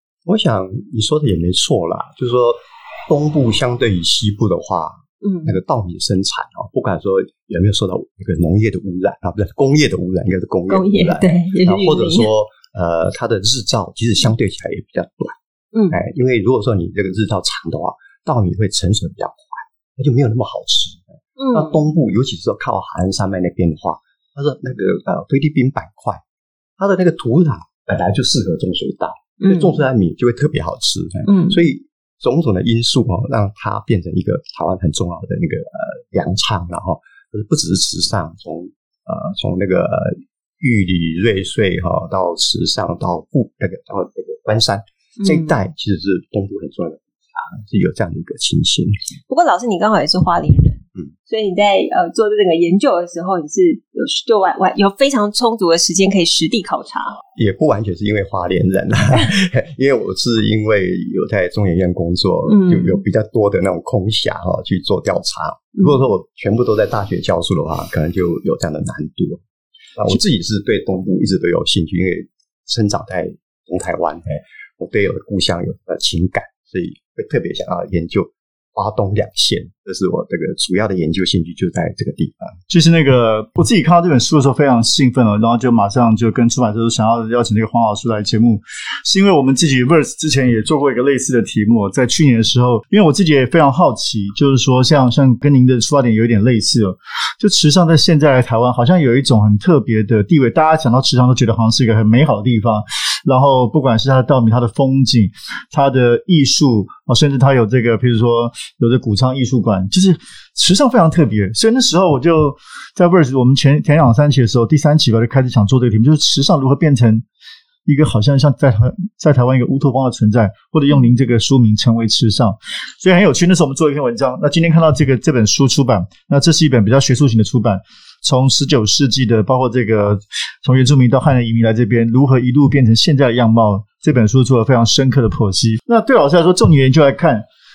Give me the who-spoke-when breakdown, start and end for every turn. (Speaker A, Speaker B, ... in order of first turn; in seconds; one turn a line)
Speaker A: 0.2-15.4
Speaker B: 5.2-5.6
Speaker B: 10.7-12.3
Speaker B: 15.7-16.0
Speaker A: 15.9-26.2
Speaker B: 21.4-21.9
Speaker A: 26.8-49.0
Speaker B: 29.4-29.8
Speaker B: 31.2-31.6
Speaker B: 45.2-45.6
Speaker B: 49.3-57.2
Speaker A: 57.4-69.4
Speaker B: 62.5-63.0
Speaker A: 70.0-82.6
Speaker C: 82.7-117.2
Speaker C: 117.9-137.4